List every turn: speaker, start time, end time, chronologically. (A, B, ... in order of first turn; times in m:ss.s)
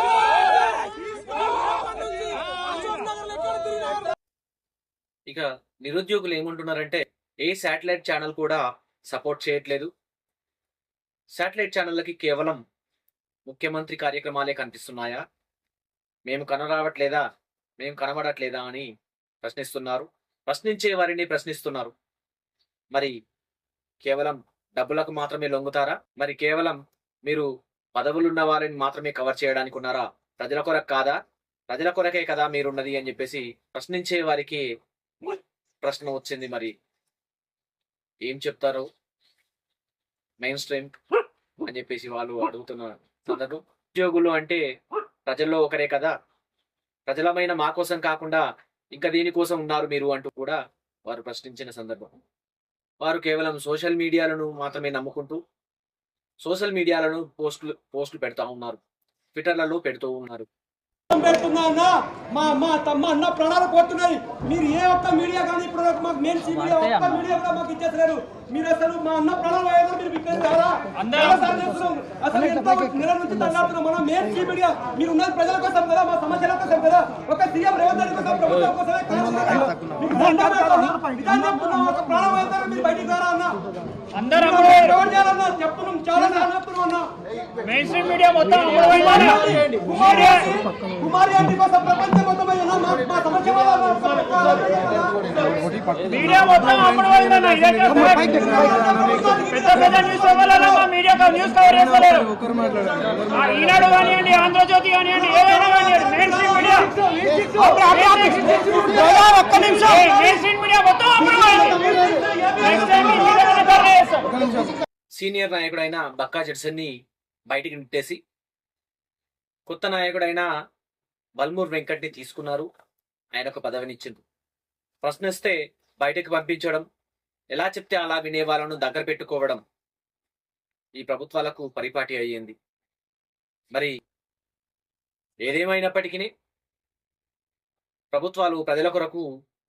0:05.3-0:09.9 A
0:11.4-0:12.6 A
0:13.5-0:15.2 A
0:16.3-0:17.2 A
0:17.8-0:18.9 A
0:19.4-0:21.9 A
0:24.0-0:31.2 A
0:31.7-0:34.6 A
0:35.2-0:36.7 A
0:38.2-0:38.9 A
0:40.4-0:41.0 A
0:41.6-0:44.6 A
0:45.3-0:46.1 A
0:47.1-0:48.4 A
0:49.0-0:52.2 A
0:53.0-0:55.4 A
0:56.4-0:58.8 A
0:59.4-1:00.5 A
1:01.1-1:23.6 B
1:24.2-1:24.9 C
1:24.4-1:27.1 B
1:27.6-1:29.5 C
1:29.2-1:35.6 B
1:30.0-1:30.4 C
1:36.1-1:38.7 C
1:38.4-1:39.8 B
1:39.4-1:42.3 C
1:43.3-1:46.9 C
1:47.5-1:51.8 C
1:48.6-1:49.8 B
1:51.4-1:53.1 B
1:52.6-1:54.4 C
1:55.2-1:56.9 A
1:57.5-1:58.2 A
1:59.7-2:00.5 A
2:01.4-2:02.7 A
2:03.4-2:04.2 A
2:05.0-2:06.9 A
2:07.5-2:09.6 A
2:11.0-2:12.6 A
2:15.4-2:16.3 A
2:18.1-2:19.3 A